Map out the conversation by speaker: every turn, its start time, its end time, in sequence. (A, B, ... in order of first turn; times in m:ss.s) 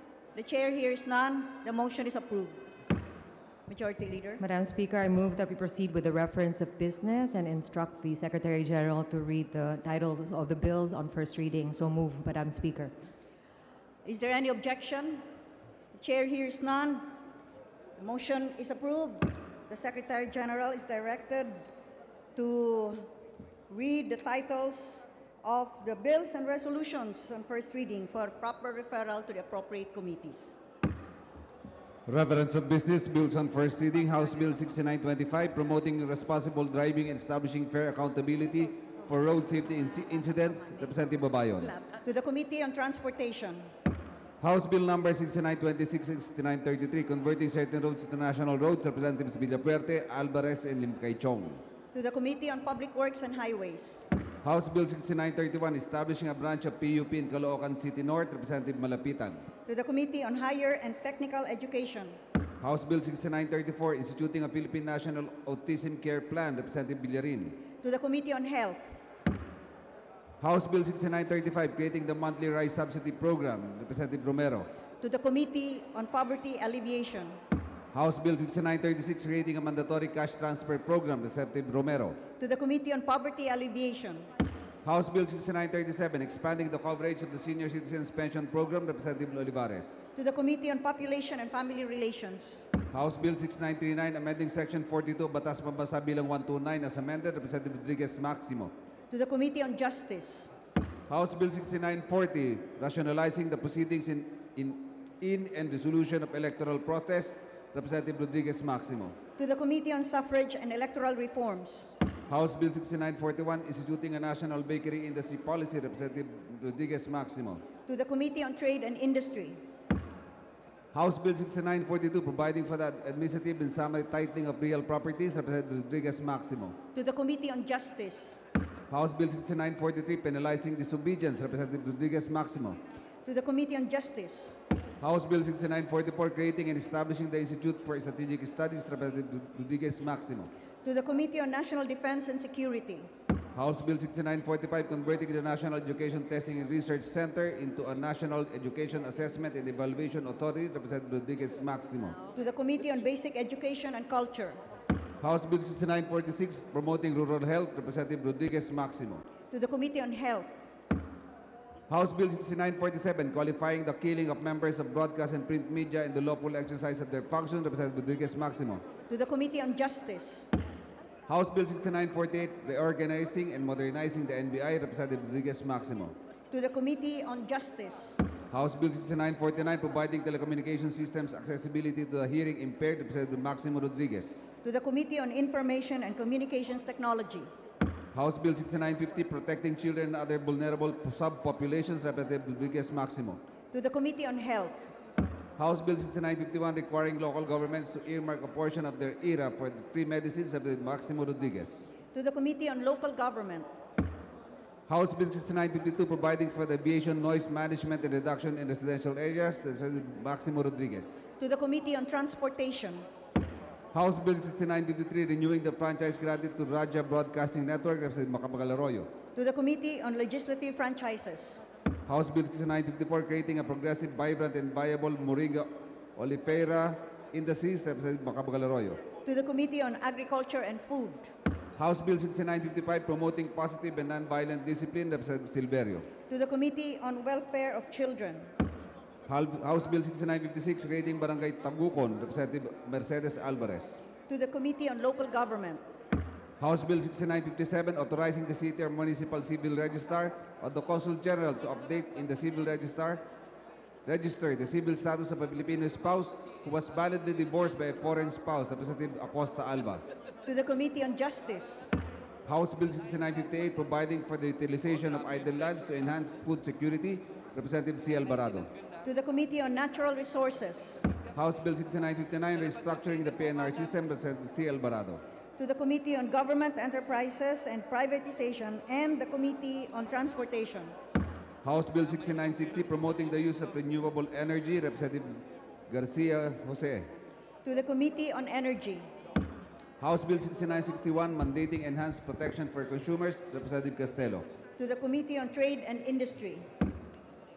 0:00.3-0:02.6 A
0:03.7-0:04.4 A
0:04.4-0:12.9 B
0:14.0-0:15.2 A
0:15.9-0:17.2 A
0:18.0-0:21.6 A
0:22.4-0:23.1 A
0:23.7-0:30.6 A
0:32.1-0:41.8 C
0:42.0-0:43.7 A
0:44.4-0:51.6 C
0:51.9-0:54.1 A
0:54.4-0:59.4 C
0:59.6-1:02.2 A
1:02.6-1:07.6 C
1:07.8-1:09.0 A
1:10.4-1:14.7 C
1:15.0-1:17.4 A
1:17.9-1:22.2 C
1:22.4-1:24.2 A
1:24.8-1:30.0 C
1:30.2-1:32.7 A
1:32.9-1:38.7 C
1:39.1-1:40.5 A
1:41.1-1:49.2 C
1:49.4-1:51.9 A
1:52.3-1:57.6 C
1:57.9-1:59.6 A
2:00.9-2:06.8 C
2:06.9-2:08.4 A
2:08.9-2:12.8 C
2:13.2-2:14.6 A
2:15.0-2:20.5 C
2:20.8-2:23.1 A
2:23.5-2:32.2 C
2:32.3-2:34.6 A
2:35.2-2:39.2 C
2:39.5-2:40.7 A
2:41.9-2:48.8 C
2:49.1-2:50.5 A
2:51.3-2:56.1 C
2:56.5-2:58.2 A
2:58.5-3:04.5 C
3:04.6-3:07.5 A
3:08.1-3:13.4 C
3:13.7-3:14.9 A
3:15.6-3:21.9 C
3:22.1-3:23.7 A
3:24.9-3:31.2 C
3:31.4-3:33.0 A
3:33.9-3:39.1 C
3:39.3-3:41.6 A
3:42.0-3:49.0 C
3:49.2-3:51.3 A
3:51.8-3:56.1 C
3:56.3-3:58.5 A
3:59.3-4:04.0 C
4:04.3-4:05.8 A
4:06.6-4:13.2 C
4:14.0-4:20.0 C
4:20.4-4:21.9 A
4:22.4-4:28.7 C
4:29.0-4:31.1 A
4:31.3-4:35.2 C
4:35.6-4:40.9 A
4:41.6-4:47.1 C
4:47.6-4:49.0 A
4:50.0-4:54.5 C
4:54.8-4:56.6 A